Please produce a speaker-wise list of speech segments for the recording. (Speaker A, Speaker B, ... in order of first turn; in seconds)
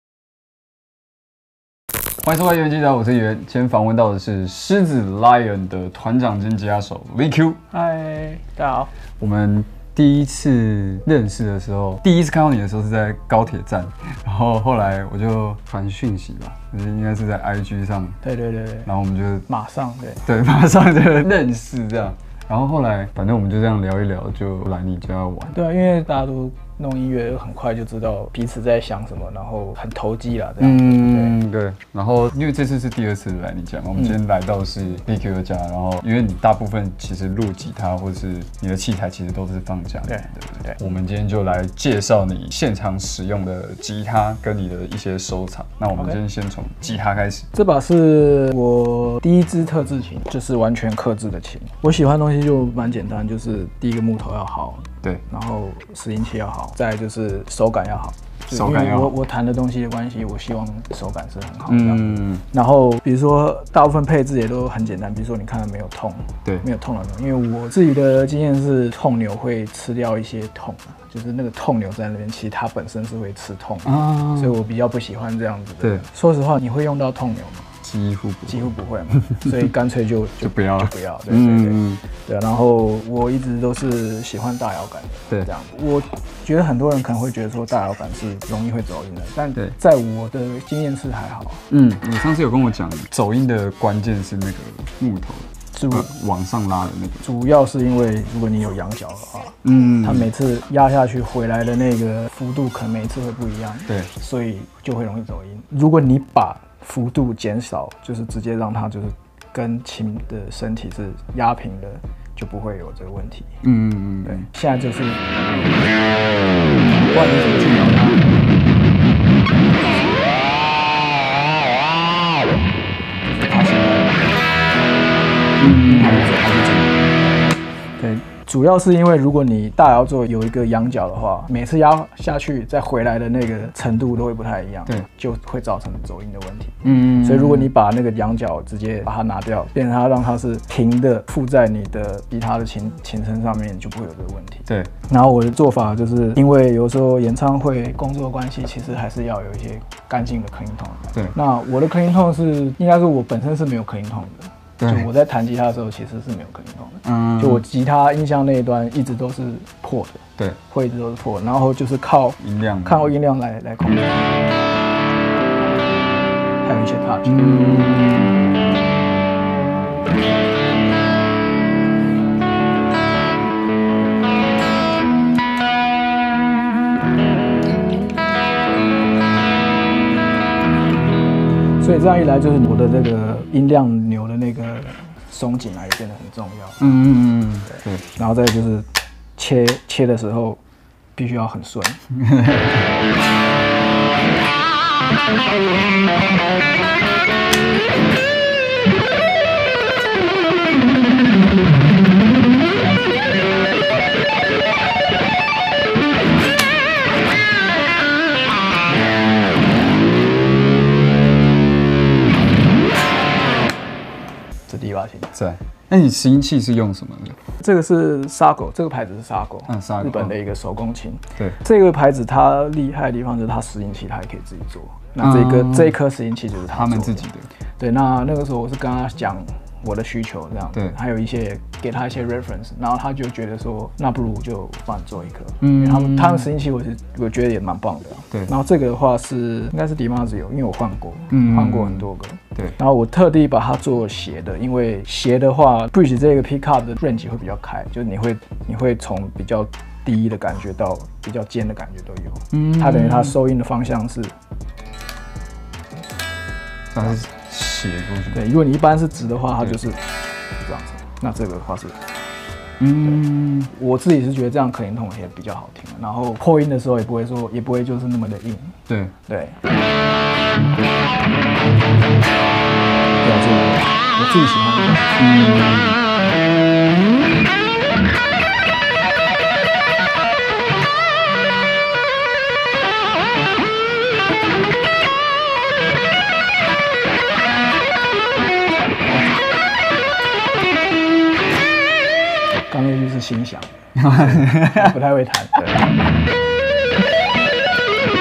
Speaker A: 2.2-7.6, 9.2-18.2, 18.9-19.5, 20.3-25.6, 30.6-47.5, 58.5-59.2, 61.7-62.4, 73.8-74.6, 77.8-78.7, 79.2-79.7, 80.4-82.0, 91.7-97.3, 99.6-100.3, 113.6-114.5, 125.6-126.4, 136.8-137.7, 154.8-155.1, 157.0-157.6, 162.4-163.1, 167.2-168.4, 186.8-188.1, 192.2-192.8, 215.3-217.4, 219.7-220.4, 225.2-226.0, 226.7-227.5, 235.6-236.5, 241.3-242.8, 252.5-253.4, 256.9-258.4, 262.8-263.7, 268.9-269.1, 275.2-276.0, 294.0-294.9
Speaker B: 7.7-8.9, 18.2-18.9, 19.5-20.3, 25.5-31.4, 40.1-40.8, 47.5-77.7, 78.5-91.7, 95.7-96.1, 97.2-113.6, 114.2-116.1, 116.8-118.5, 119.1-120.5, 123.2-124.6, 125.7-127.2, 128.0-164.7, 166.6-167.9, 181.8-186.9, 187.7-190.6, 191.2-192.0, 214.7-215.3, 217.6-254.3, 258.3-260.0, 260.6-262.0, 263.7-269.6, 273.2-275.2, 292.7-295.9